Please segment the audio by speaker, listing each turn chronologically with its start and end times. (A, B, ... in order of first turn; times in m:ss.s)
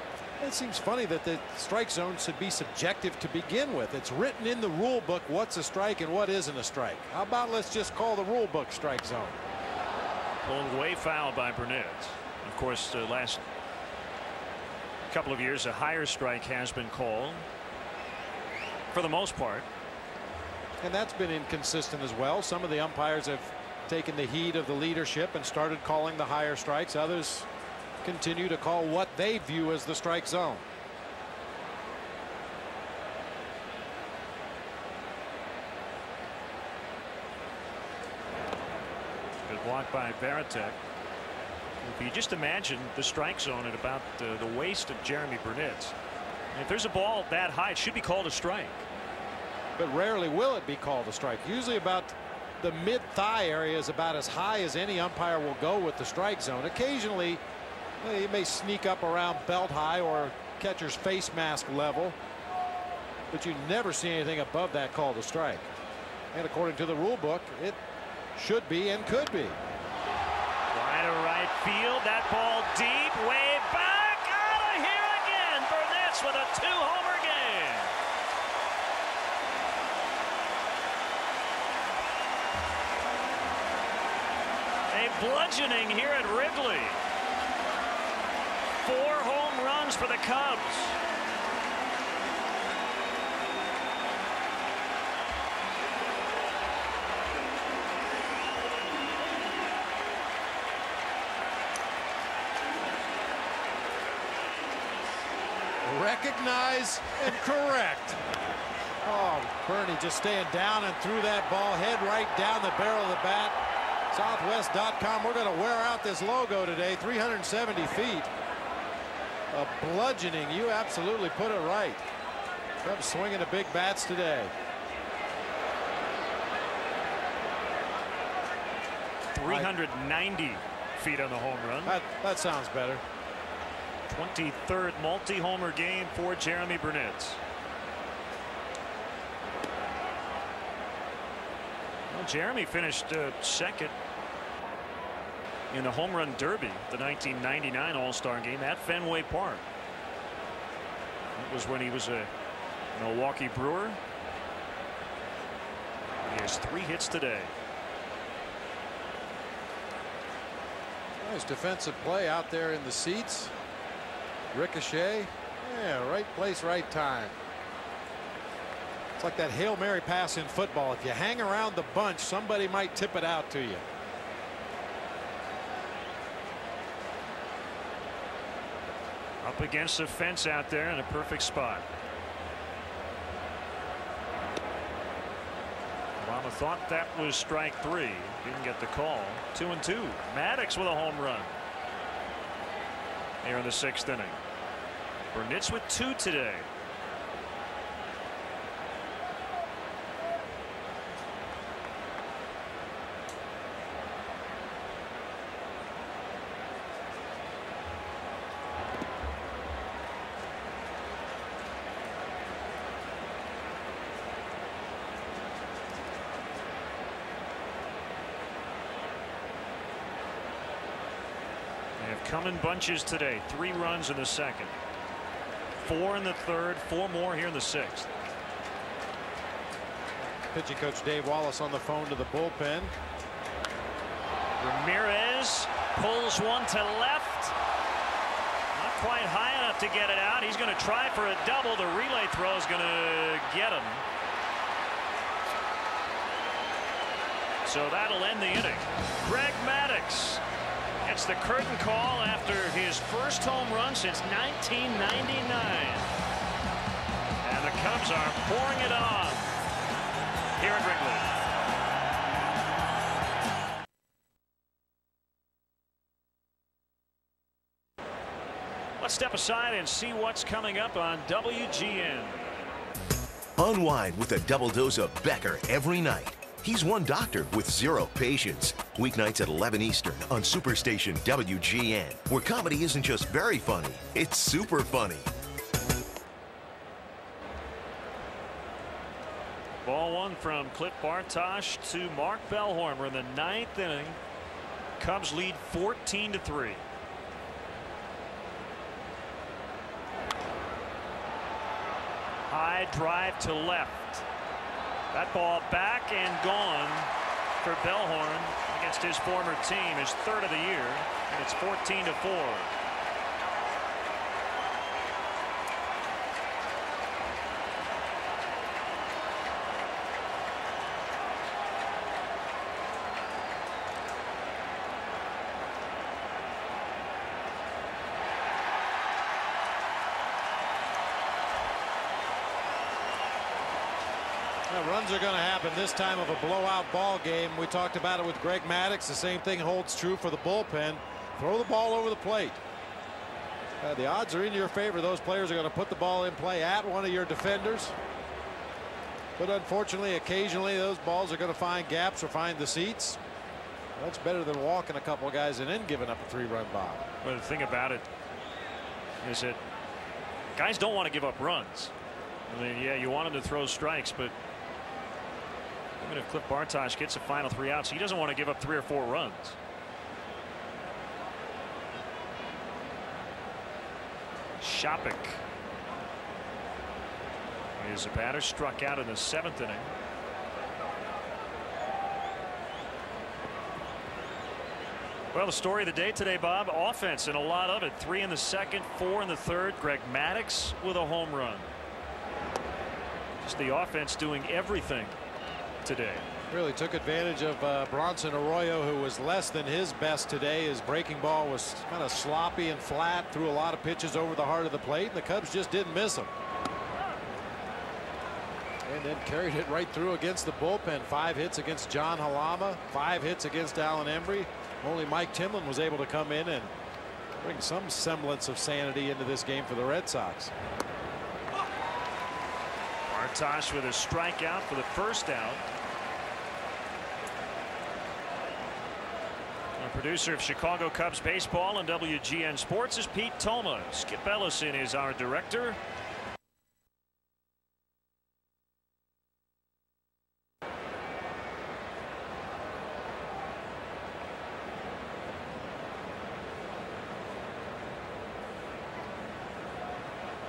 0:00.4-0:09.4 A
0:10.4-0:13.4 B
0:15.1-0:17.4 B
0:18.9-0:19.7 B
0:20.8-0:27.5 A
0:28.0-0:30.6 A
0:39.5-0:40.8 B
0:41.8-0:45.9 B
0:46.5-0:48.8 B
0:49.8-0:57.4 A
0:58.0-1:02.2 A
1:03.3-1:05.7 A
1:06.3-1:07.8 A
1:08.3-1:09.6 A
1:10.7-1:17.9 B
1:24.9-1:27.0 B
1:28.8-1:31.0 B
1:45.8-1:48.2 A
1:49.0-1:53.6 A
1:54.1-1:58.3 A
1:59.5-2:02.0 A
2:02.8-2:04.5 A
2:09.3-2:12.0 B
2:09.4-2:09.7 A
2:11.8-2:13.0 A
2:14.1-2:17.4 B
2:22.1-2:23.9 B
2:25.7-2:29.6 B
2:31.3-2:32.3 B
2:32.9-2:34.0 B
2:36.3-2:37.5 B
2:41.2-2:43.5 A
2:44.5-2:47.3 A
2:49.2-2:53.8 A
2:59.4-3:01.9 B
3:06.2-3:11.6 B
3:13.4-3:14.4 B
3:15.3-3:16.7 B
3:42.0-3:44.7 B
3:45.8-3:48.1 B
3:50.4-3:52.9 A
3:54.6-3:57.5 B
3:58.7-4:04.0 B
4:07.6-4:10.4 B
4:11.0-4:16.1 B
4:17.4-4:19.5 B
4:20.6-4:21.3 B
4:29.0-4:32.4 B
4:33.6-4:45.3 C
4:49.8-4:54.2 B
4:55.0-4:56.8 B
5:02.5-5:04.2 B
5:05.1-5:12.7 B
5:34.7-5:42.6 A
5:43.8-5:47.9 A
5:49.4-5:53.2 A
5:54.0-5:57.0 A
5:57.2-5:58.1 B
5:59.2-5:59.6 B
6:00.5-6:01.9 B
6:02.5-6:04.3 B
6:06.0-6:09.6 B
6:14.6-6:15.4 B
6:17.8-6:19.9 B
6:25.3-6:31.7 B
6:33.4-6:35.2 B
6:35.8-6:36.2 B
6:36.5-6:46.3 A
6:48.8-6:56.7 A
6:57.4-7:00.5 A
7:03.1-7:05.6 B
7:09.8-7:15.8 B